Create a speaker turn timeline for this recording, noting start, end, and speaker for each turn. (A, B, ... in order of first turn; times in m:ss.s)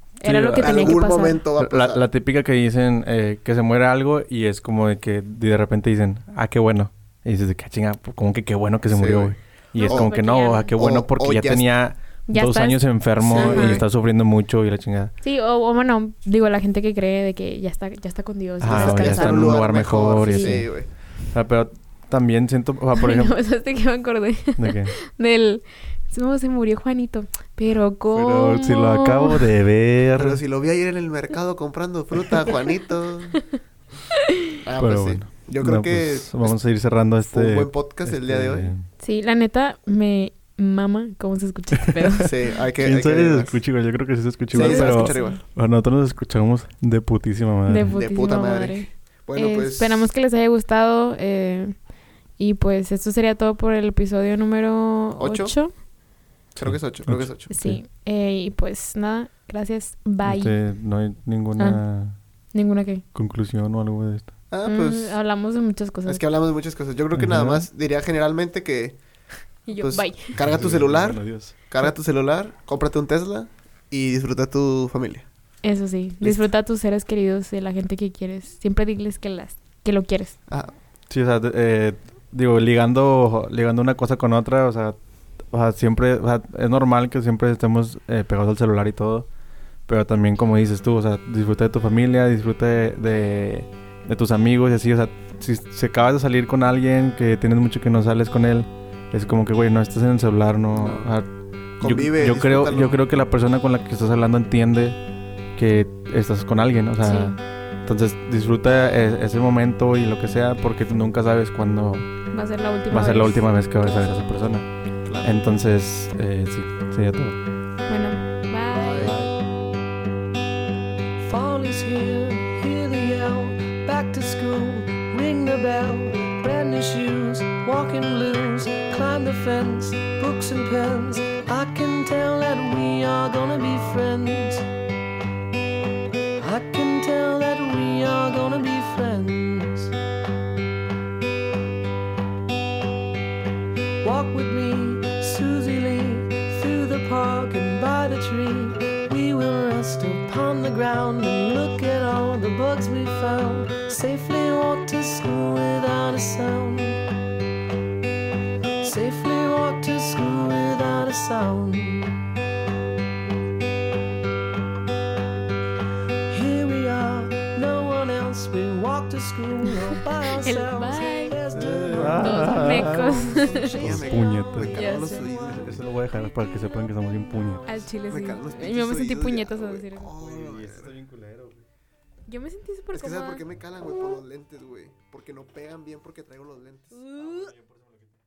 0:00.2-0:01.4 A
0:00.2-0:01.0 B
0:00.6-0:02.0 C
0:01.6-0:15.1 B
0:08.9-0:09.3 C
0:09.7-0:10.7 A
0:09.9-0:10.1 C
0:10.7-0:11.6 C
0:12.3-0:13.8 A
0:13.2-0:13.8 C
0:15.2-0:20.6 A
0:18.6-0:20.7 B
0:18.7-0:20.9 C
0:21.3-0:23.3 B
0:22.9-0:29.5 A
0:24.6-0:24.9 B
0:28.1-0:30.4 B
0:30.2-0:33.4 C
0:34.6-0:36.6 C
0:34.8-0:38.9 B
0:37.2-0:38.7 C
0:39.0-0:42.4 A
0:41.8-0:42.2 B
0:42.2-0:43.6 C
0:42.8-0:48.0 B
0:44.5-0:45.4 C
0:44.5-0:45.4 A
0:47.7-0:51.8 A
0:47.9-0:50.1 C
0:52.4-0:55.7 A
0:55.2-0:55.5 C
0:56.5-0:57.8 B
0:56.6-0:57.5 C
0:57.5-1:00.5 A
1:00.2-1:02.2 B
1:02.5-1:03.0 A
1:03.1-1:04.3 B
1:04.5-1:05.2 C
1:04.6-1:06.2 A
1:06.1-1:09.0 C
1:07.1-1:07.6 B
1:09.6-1:10.4 A
1:09.7-1:15.3 C
1:10.4-1:11.5 B
1:15.6-1:20.4 A
1:20.5-1:20.7 C
1:21.1-1:25.0 B
1:25.5-1:29.3 B
1:29.9-1:45.0 B
1:40.7-1:41.1 C
1:41.8-1:43.0 C
1:45.6-1:52.1 B
1:47.0-1:47.4 A
1:52.3-1:54.2 A
1:52.9-1:54.7 B
1:55.0-1:55.3 C
1:55.2-1:57.4 B
1:57.9-1:59.1 A
1:58.7-1:59.2 C
1:59.0-1:59.3 B
2:01.2-2:14.7 D
2:16.4-2:19.9 D
2:24.0-2:37.0 D
2:38.8-2:42.2 D
2:46.3-2:52.9 D
2:50.3-2:53.8 A
2:51.5-2:54.8 B
2:51.6-2:52.2 C
2:52.8-2:55.8 C
2:53.6-2:54.1 D
2:54.7-2:55.6 A
2:55.4-2:57.7 B
2:57.7-3:00.1 A
2:58.1-3:00.9 C
3:00.2-3:01.6 B
3:02.3-3:03.4 A
3:02.9-3:07.0 C
3:06.9-3:07.5 A
3:07.2-3:08.0 B